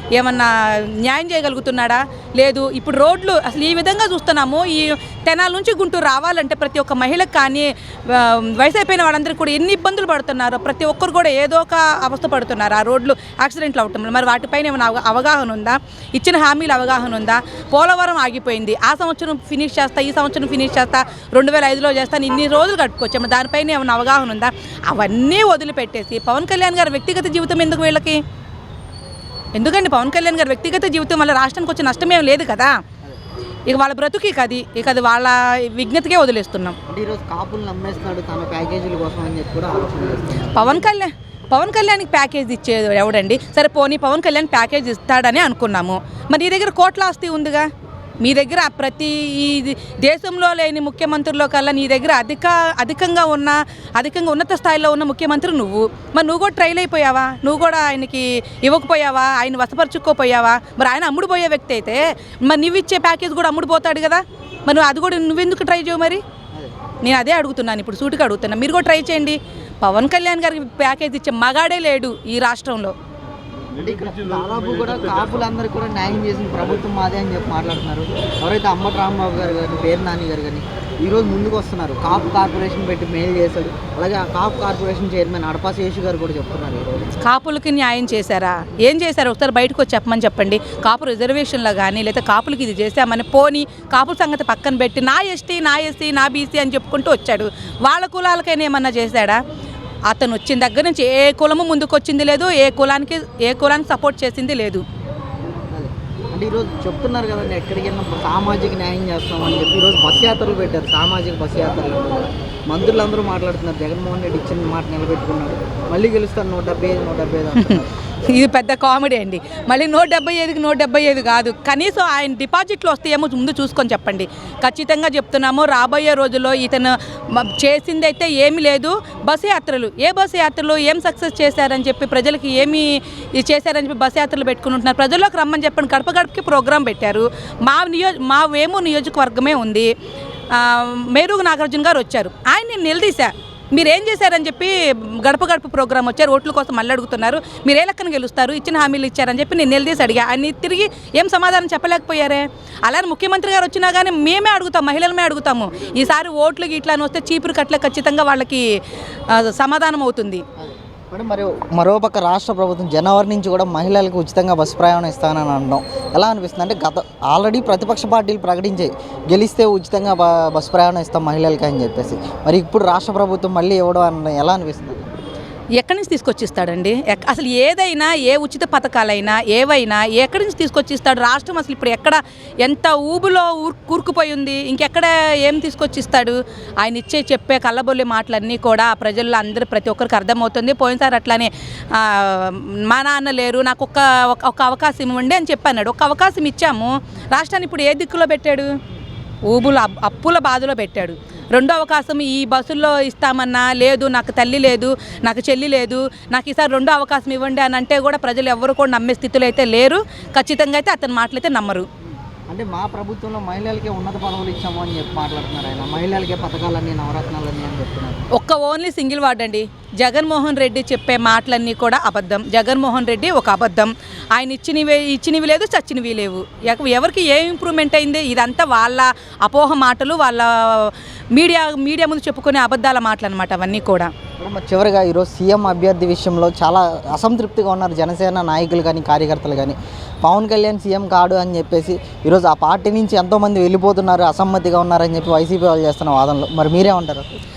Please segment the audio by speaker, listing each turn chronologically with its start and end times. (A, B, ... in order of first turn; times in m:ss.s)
0:00.2-0:28.2 A
0:29.5-0:32.7 A
0:33.7-0:36.8 A
0:36.9-0:40.9 B
0:40.5-0:47.7 A
0:48.2-1:06.2 A
1:07.0-1:12.9 A
1:13.6-1:27.2 B
1:27.2-1:39.4 A
1:40.1-1:44.8 A
1:45.7-1:57.9 B
1:57.6-2:19.9 A
2:20.5-2:38.7 A
2:39.3-2:40.4 A
2:41.1-2:55.1 B
2:55.8-3:18.7 A
3:19.4-3:31.9 A
3:32.5-3:38.3 B
3:38.3-3:54.1 A
3:54.4-4:07.3 B